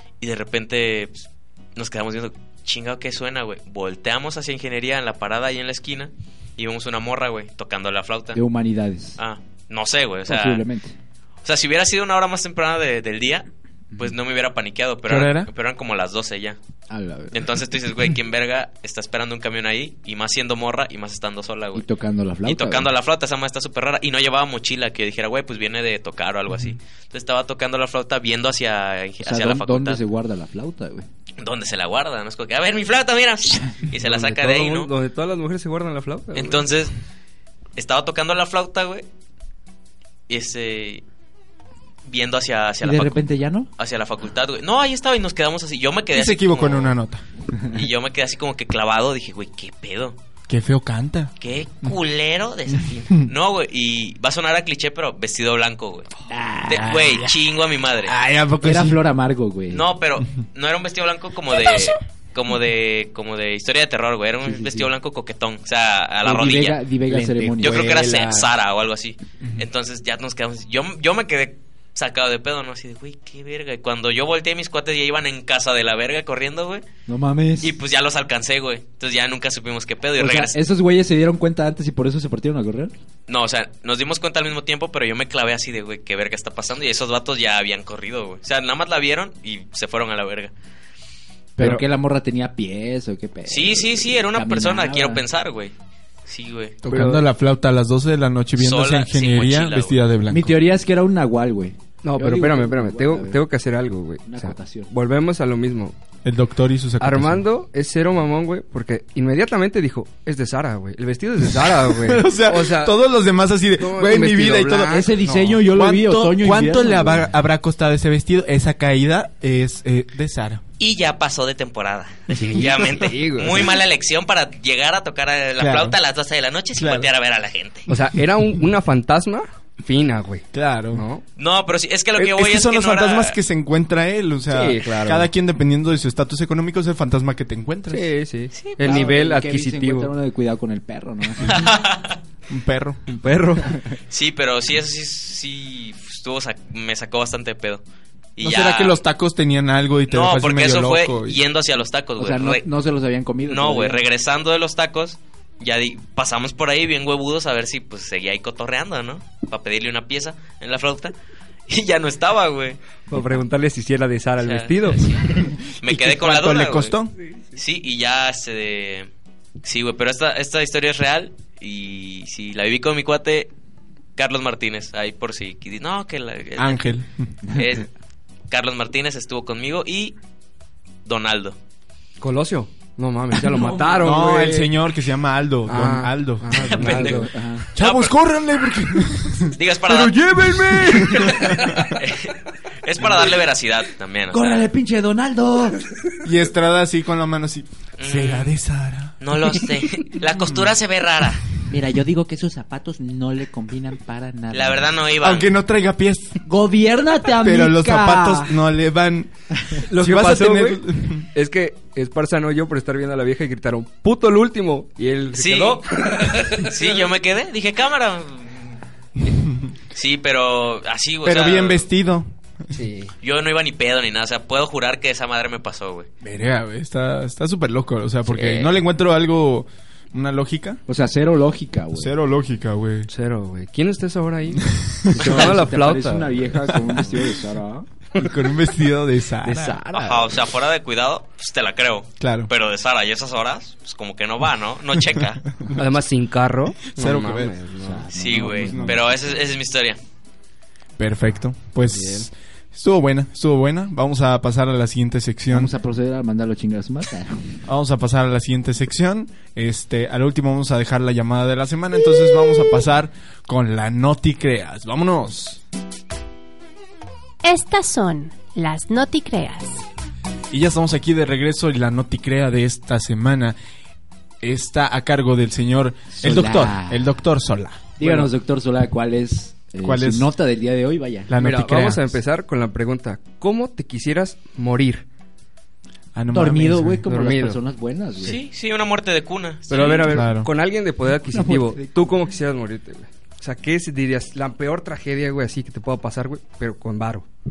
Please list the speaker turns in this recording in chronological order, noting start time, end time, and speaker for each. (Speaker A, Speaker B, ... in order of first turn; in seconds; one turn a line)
Speaker A: 0.2-8.4
Speaker B: 8.3-9.2
Speaker A: 9.2-10.6
Speaker B: 10.3-10.9
Speaker A: 11.4-16.6
Speaker C: 15.1-15.5
Speaker B: 16.9-17.3
Speaker A: 17.3-21.9
Speaker B: 21.7-22.9
Speaker A: 22.4-30.0
Speaker B: 29.2-31.1
Speaker A: 31.4-34.9
Speaker D: 34.0-36.7
Speaker A: 36.3-36.9
Speaker A: 37.8-39.0
Speaker A: 40.3-41.0
Speaker A: 42.0-43.2
Speaker B: 42.8-43.7
Speaker A: 43.8-47.0
Speaker C: 46.1-47.2
Speaker A: 47.7-50.2
Speaker C: 50.5-51.3
Speaker A: 51.4-56.1
Speaker B: 56.3-56.9
Speaker A: 56.7-58.1
Speaker C: 56.7-57.3
Speaker C: 58.0-59.0
Speaker B: 58.6-59.9
Speaker A: 59.7-66.8
Speaker B: 64.4-64.9
Speaker B: 66.2-68.2
Speaker D: 67.1-68.5
Speaker A: 67.6-76.8
Speaker B: 77.1-77.8
Speaker A: 77.6-80.6
Speaker B: 80.2-82.9
Speaker A: 83.3-90.5
Speaker B: 91.6-95.2
Speaker A: 93.5-95.7
Speaker A: 96.2-96.8
Speaker C: 96.8-100.6
Speaker D: 96.8-97.2
Speaker A: 98.6-100.0
Speaker B: 100.3-103.4
Speaker D: 102.0-105.9
Speaker B: 104.2-104.9
Speaker C: 106.2-107.4
Speaker D: 107.0-113.0
Speaker C: 111.5-120.6
Speaker D: 113.8-115.6
Speaker B: 114.9-117.3
Speaker A: 120.8-127.9
Speaker D: 122.3-123.7
Speaker C: 125.6-126.0
Speaker C: 126.8-127.1
Speaker D: 127.9-131.2
Speaker C: 130.5-131.0
Speaker A: 131.4-133.4
Speaker C: 132.2-138.1
Speaker D: 134.5-135.3
Speaker D: 137.9-140.1
Speaker A: 138.5-139.1
Speaker B: 138.8-141.7
Speaker A: 141.4-142.2
Speaker C: 142.5-143.0
Speaker D: 143.1-143.8
Speaker A: 144.1-147.8
Speaker A: 148.4-149.0
Speaker C: 148.4-151.4
Speaker A: 150.1-152.7
Speaker B: 152.2-154.0
Speaker A: 153.5-161.1
Speaker A: 161.7-162.8
Speaker D: 163.1-165.2
Speaker A: 164.4-167.0
Speaker C: 165.8-167.1
Speaker A: 167.5-169.1
Speaker A: 169.6-173.5
Speaker A: 174.2-176.9
Speaker C: 176.6-177.3
Speaker A: 177.5-177.9
Speaker A: 178.5-180.1
Speaker A: 181.0-181.6
Speaker D: 182.2-184.7
Speaker B: 183.5-184.0
Speaker C: 184.0-187.2
Speaker D: 185.7-187.3
Speaker A: 186.5-188.1
Speaker B: 187.0-187.7
Speaker C: 187.7-189.6
Speaker A: 189.5-190.3
Speaker D: 189.8-191.7
Speaker C: 191.1-191.8
Speaker A: 191.1-194.7
Speaker B: 194.3-195.9
Speaker C: 196.2-199.6
Speaker A: 198.0-198.5
Speaker A: 199.2-201.5
Speaker C: 200.3-200.7
Speaker B: 201.7-204.9
Speaker A: 204.5-205.5
Speaker C: 205.2-206.4
Speaker B: 206.4-208.6
Speaker C: 207.4-211.3
Speaker D: 209.9-216.7
Speaker A: 215.3-218.8
Speaker C: 219.3-219.7
Speaker A: 219.9-221.8
Speaker C: 221.2-222.3
Speaker D: 222.7-223.1
Speaker A: 223.2-226.1
Speaker C: 226.2-230.8
Speaker A: 228.3-228.7
Speaker B: 230.9-232.1
Speaker C: 231.9-233.1
Speaker D: 233.1-236.7
Speaker C: 234.7-235.4
Speaker B: 235.1-237.9
Speaker C: 236.7-237.1
Speaker C: 238.2-239.8
Speaker B: 239.4-240.3
Speaker A: 239.9-245.4
Speaker C: 242.2-242.5
Speaker D: 245.7-248.1
Speaker C: 247.0-247.6
Speaker B: 247.8-249.1
Speaker A: 248.1-250.0
Speaker C: 248.3-249.0
Speaker C: 251.0-255.7
Speaker D: 251.9-252.3
Speaker B: 255.5-257.6
Speaker C: 257.6-265.6
Speaker E: 267.4-269.8
Speaker C: 270.5-273.6
Speaker C: 274.4-277.9
Speaker B: 276.1-277.1
Speaker B: 278.0-281.3
Speaker D: 278.0-278.3
Speaker C: 279.8-280.3
Speaker C: 281.3-282.1
Speaker D: 281.4-285.0
Speaker C: 286.1-287.0
Speaker B: 286.3-288.4
Speaker D: 287.1-287.6
Speaker A: 288.2-290.2
Speaker D: 289.7-297.2
Speaker C: 290.1-290.5
Speaker B: 291.3-292.1